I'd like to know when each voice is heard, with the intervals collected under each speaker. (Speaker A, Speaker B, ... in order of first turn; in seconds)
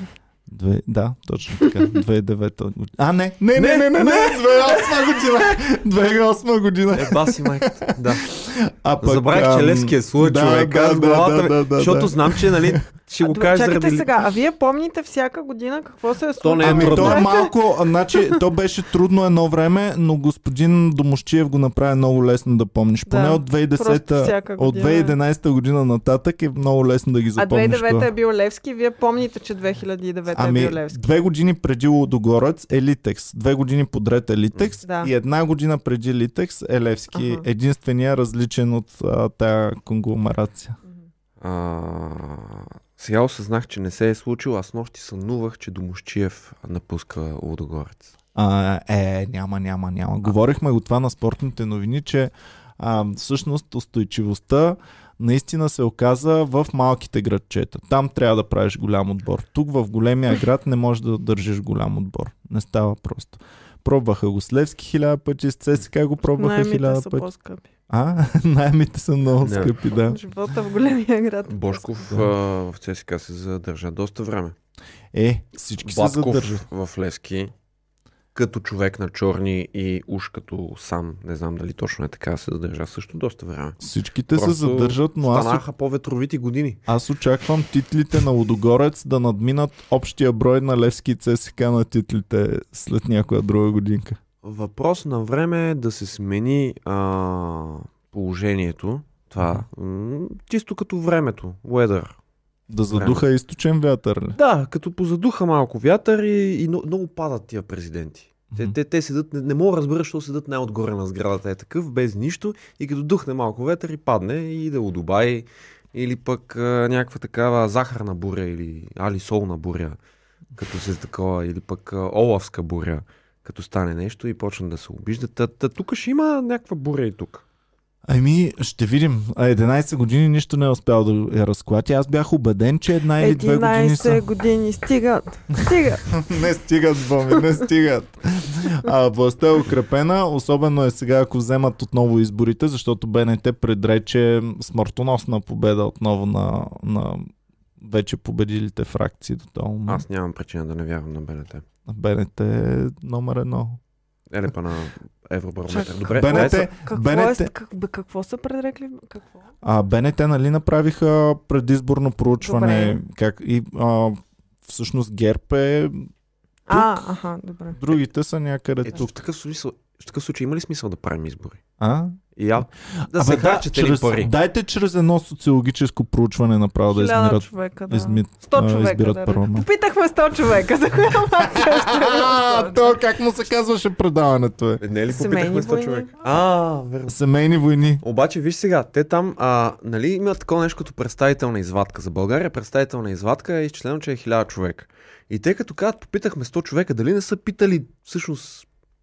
Speaker A: 0.5-12.8, 16.6-28.1, 30.3-40.8, 48.3-67.3, 67.9-70.2, 75.1-76.6, 83.8-85.6, 86.9-94.2, 102.7-104.4, 128.1-134.2, 136.1-150.0, 151.8-153.8, 156.1-157.5, 159.6-166.1, 166.7-167.0, 167.7-169.2, 171.8-172.2, 173.0-179.7, 181.5-184.8, 187.1-188.0
Speaker B: 1.6-1.9, 13.2-17.5, 23.1-25.1, 27.4-31.0, 34.8-35.1, 37.1-37.5, 66.3-67.7, 70.0-72.1, 133.2-136.2, 155.7-159.4, 162.4-163.0, 166.7-167.8, 176.9-183.0, 185.1-186.1
Speaker C: 3.5-4.7, 6.9-8.2, 9.0-14.1, 16.4-17.3, 41.4-48.1, 69.4-69.7, 71.5-74.5, 75.8-77.5, 78.3-83.8, 84.3-86.8, 94.4-102.2, 102.9-103.2, 104.4-120.0, 120.5-127.4, 149.9-151.6, 154.3-156.6, 168.8-171.6, 172.3-174.3, 184.8-187.2, 188.0-198.7